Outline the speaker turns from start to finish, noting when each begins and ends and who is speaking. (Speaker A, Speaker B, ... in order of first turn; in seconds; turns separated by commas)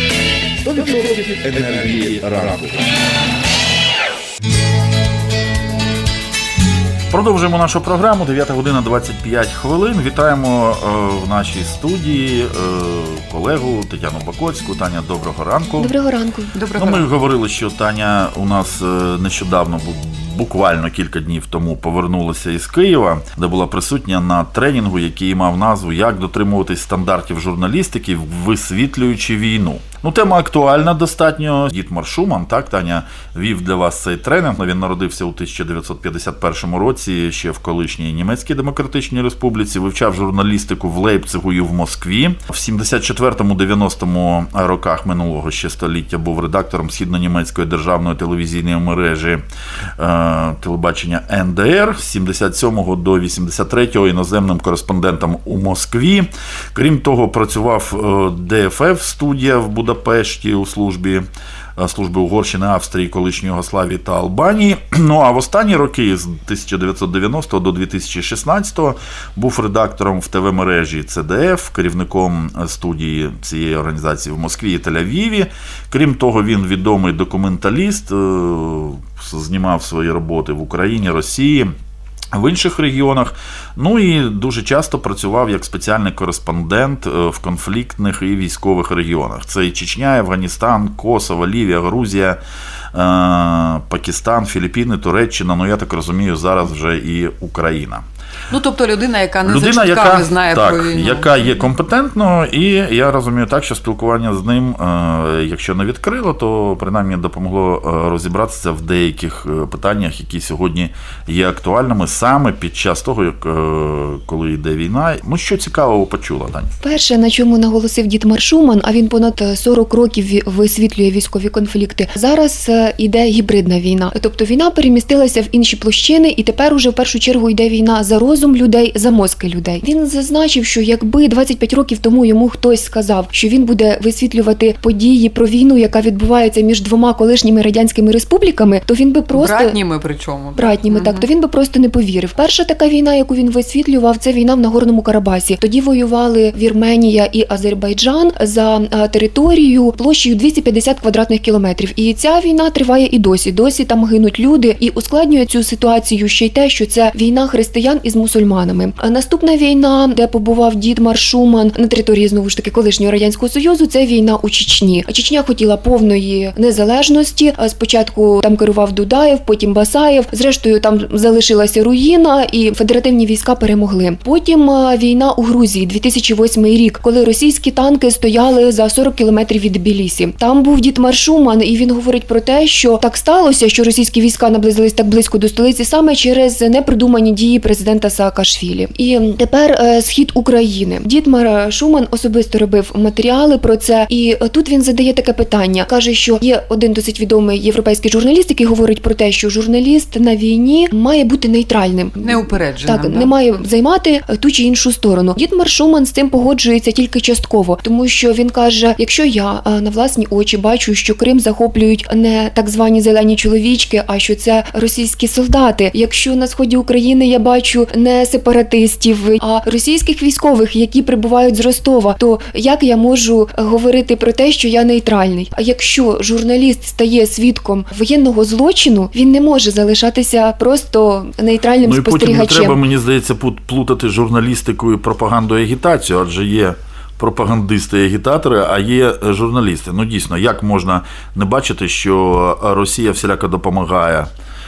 Speaker A: 0.6-2.9, Speaker A: 7.1-15.9, Speaker B: 15.8-16.6, Speaker C: 16.6-17.1, Speaker A: 16.8-49.4, Speaker A: 50.0-61.2, Speaker A: 61.8-81.7, Speaker A: 82.3-92.4, Speaker A: 92.9-98.0, Speaker C: 98.5-101.5, Speaker A: 99.5-116.7, Speaker B: 116.8-139.8, Speaker C: 139.3-141.2, Speaker B: 140.6-232.8, Speaker C: 202.2-203.3, Speaker A: 231.8-244.3